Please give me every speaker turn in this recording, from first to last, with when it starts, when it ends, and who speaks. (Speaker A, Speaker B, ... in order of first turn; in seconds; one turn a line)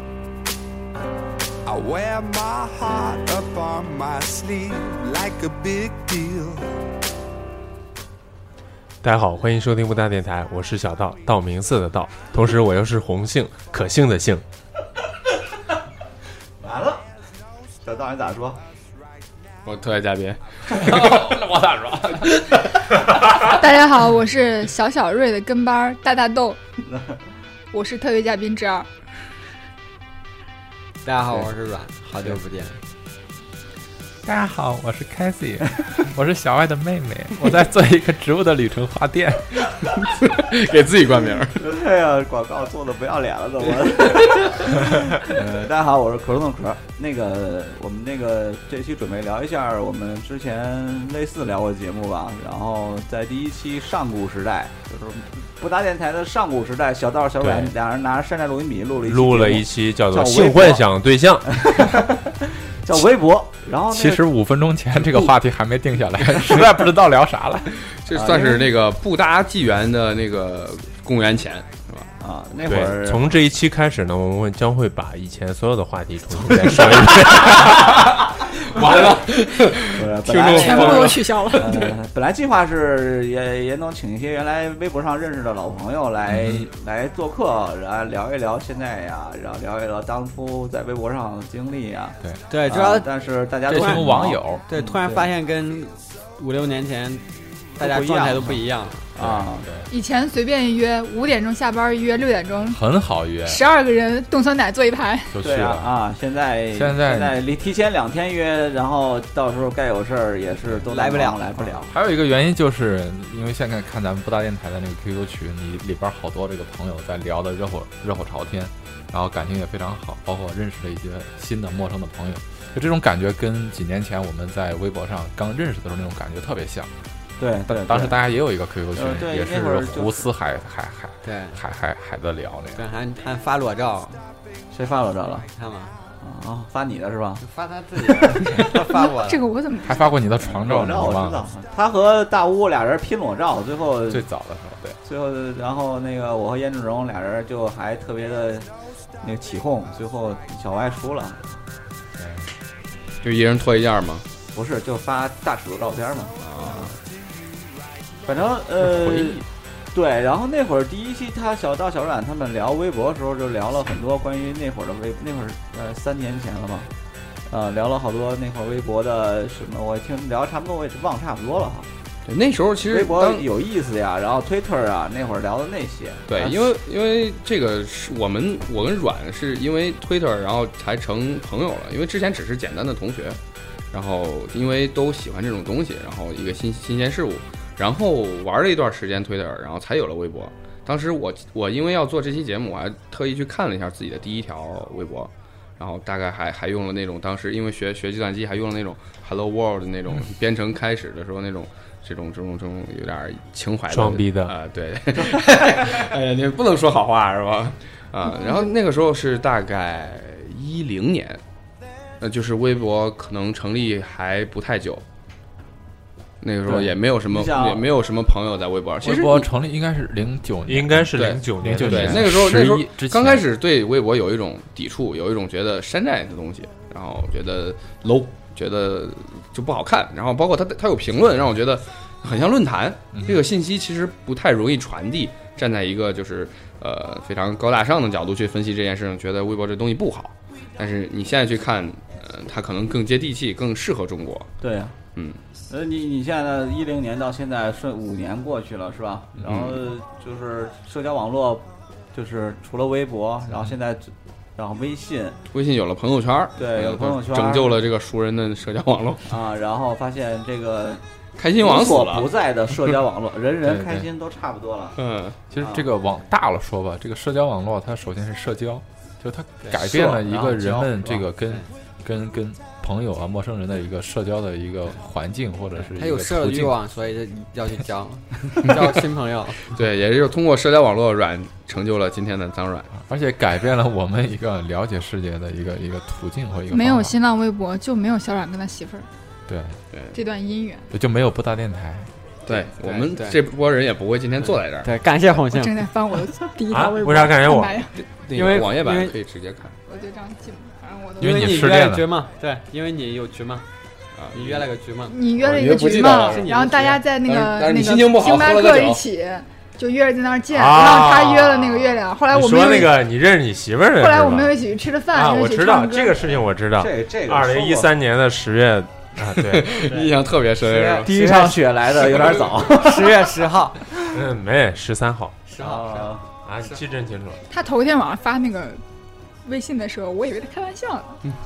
Speaker A: 1.6-6.7
Speaker B: 9.0-14.4
Speaker C: 16.6-17.0
Speaker C: 17.8-18.6
Speaker D: 19.6-21.4
Speaker E: 20.7-22.4
Speaker D: 22.2-22.7
Speaker F: 23.4-26.6
Speaker C: 26.9-27.1
Speaker F: 27.7-28.9
Speaker G: 31.0-32.8
Speaker E: 34.2-39.6
Speaker D: 40.1-41.7
Speaker C: 41.5-60.9
Speaker D: 43.8-44.6
Speaker E: 57.4-57.7
Speaker B: 59.0-61.8
Speaker C: 61.5-64.2
Speaker E: 63.9-67.7
Speaker C: 65.0-65.3
Speaker D: 68.0-72.1
Speaker C: 68.1-68.7
Speaker C: 72.2-73.3
Speaker B: 72.7-77.9
Speaker D: 76.4-81.8
Speaker C: 78.8-79.1
Speaker C: 79.9-95.3
Speaker F: 80.5-81.9
Speaker E: 86.3-86.6
Speaker G: 92.5-93.1
Speaker E: 93.7-94.6
Speaker G: 93.7-94.1
Speaker G: 94.7-97.2
Speaker C: 97.8-98.6
Speaker G: 97.8-99.1
Speaker C: 99.1-99.7
Speaker E: 99.2-99.9
Speaker F: 99.9-102.8
Speaker E: 102.7-103.6
Speaker F: 103.4-105.3
Speaker E: 105.3-105.9
Speaker C: 105.4-111.9
Speaker E: 106.7-107.4
Speaker G: 110.9-111.4
Speaker E: 111.9-126.9
Speaker C: 127.4-128.2
Speaker E: 127.7-132.8
Speaker C: 128.9-130.2
Speaker G: 131.2-131.6
Speaker G: 132.7-134.2
Speaker C: 134.7-135.5
Speaker G: 135.5-136.0
Speaker C: 136.2-137.4
Speaker G: 137.4-139.4
Speaker C: 138.2-138.8
Speaker F: 138.8-140.1
Speaker E: 139.8-141.4
Speaker C: 140.4-144.2
Speaker E: 144.1-145.0
Speaker C: 145.0-148.7
Speaker C: 149.2-151.6
Speaker E: 152.2-152.4
Speaker D: 153.2-154.2
Speaker C: 154.5-156.4
Speaker D: 156.4-156.9
Speaker C: 158.2-166.9
Speaker E: 158.8-159.4
Speaker C: 167.5-171.9
Speaker D: 172.3-173.4
Speaker C: 172.8-176.7
Speaker D: 176.3-183.4
Speaker D: 183.9-211.4
Speaker B: 203.9-204.5
Speaker D: 212.2-215.0
Speaker D: 216.4-219.5
Speaker C: 217.2-217.9
Speaker E: 219.0-223.4
Speaker B: 220.7-222.3
Speaker D: 221.1-244.5
Speaker E: 233.2-233.4
Speaker C: 244.6-245.0
Speaker C: 245.7-255.4
Speaker D: 249.4-249.8
Speaker D: 255.5-259.3
Speaker C: 256.6-257.8
Speaker C: 259.3-261.0
Speaker D: 261.4-262.3
Speaker C: 261.6-265.0
Speaker E: 263.6-264.1
Speaker D: 265.0-265.4
Speaker E: 265.5-276.8
Speaker C: 265.6-265.9
Speaker C: 269.8-271.3
Speaker G: 275.8-279.6
Speaker D: 279.7-282.9
Speaker E: 282.9-287.1
Speaker F: 286.7-289.1
Speaker E: 289.5-289.8
Speaker F: 290.1-290.9
Speaker E: 290.9-292.1
Speaker G: 292.5-293.4
Speaker D: 292.5-294.9
Speaker G: 294.8-295.9
Speaker F: 295.5-297.9
Speaker B: 296.7-297.8
Speaker D: 298.0-299.7
Speaker G: 298.3-299.1
Speaker F: 299.9-301.5
Speaker G: 301.2-303.6
Speaker E: 301.2-302.1
Speaker D: 304.2-304.7
Speaker G: 304.3-305.2
Speaker F: 305.1-312.9
Speaker D: 305.4-306.6
Speaker G: 306.2-307.0
Speaker D: 307.2-309.0
Speaker B: 310.5-314.6
Speaker F: 313.9-316.2
Speaker B: 315.1-319.8
Speaker C: 316.7-317.9
Speaker D: 319.3-321.1
Speaker G: 319.8-320.2
Speaker G: 320.7-321.7
Speaker C: 321.0-323.4
Speaker G: 322.6-323.8
Speaker B: 324.1-325.4
Speaker G: 325.5-326.1
Speaker C: 325.6-326.3
Speaker B: 326.4-327.4
Speaker F: 327.5-328.8
Speaker F: 329.4-331.2